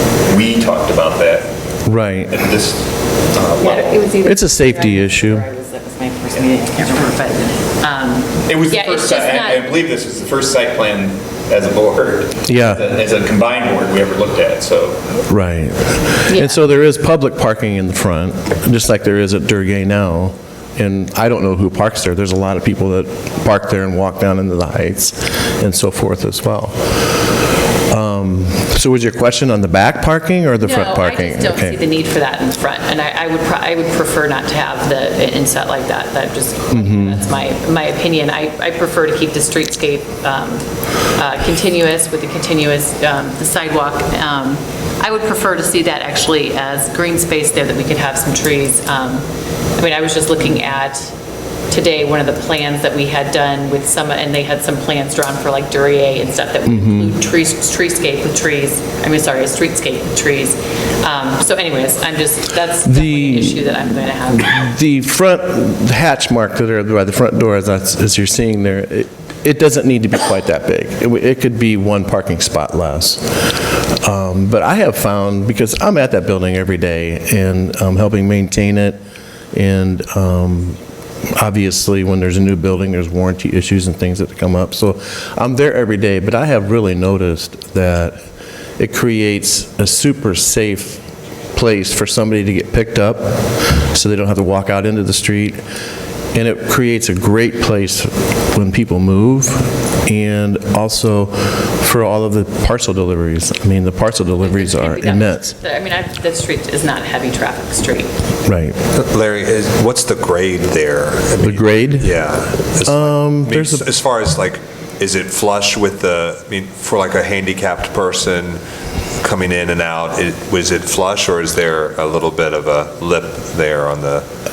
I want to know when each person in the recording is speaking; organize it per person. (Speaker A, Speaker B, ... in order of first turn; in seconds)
Speaker A: 0.2-1.5, 2.3-4.0, 8.5-15.0
Speaker B: 1.9-2.4, 4.2-5.5, 12.5-12.9, 15.3-27.1, 27.9-31.8, 36.7-37.2, 56.7-57.1, 62.8-63.7, 64.4-73.3, 74.0-79.0, 79.5-80.8, 81.3-88.2, 88.8-91.0, 91.5-95.6, 96.3-105.5, 108.5-108.8, 111.4-112.2, 112.8-113.9
Speaker C: 3.6-9.7, 16.3-16.6, 30.6-40.6, 41.1-49.3, 49.8-51.1, 51.7-64.6, 104.4-108.1
Speaker D: 108.9-118.6, 119.2-124.3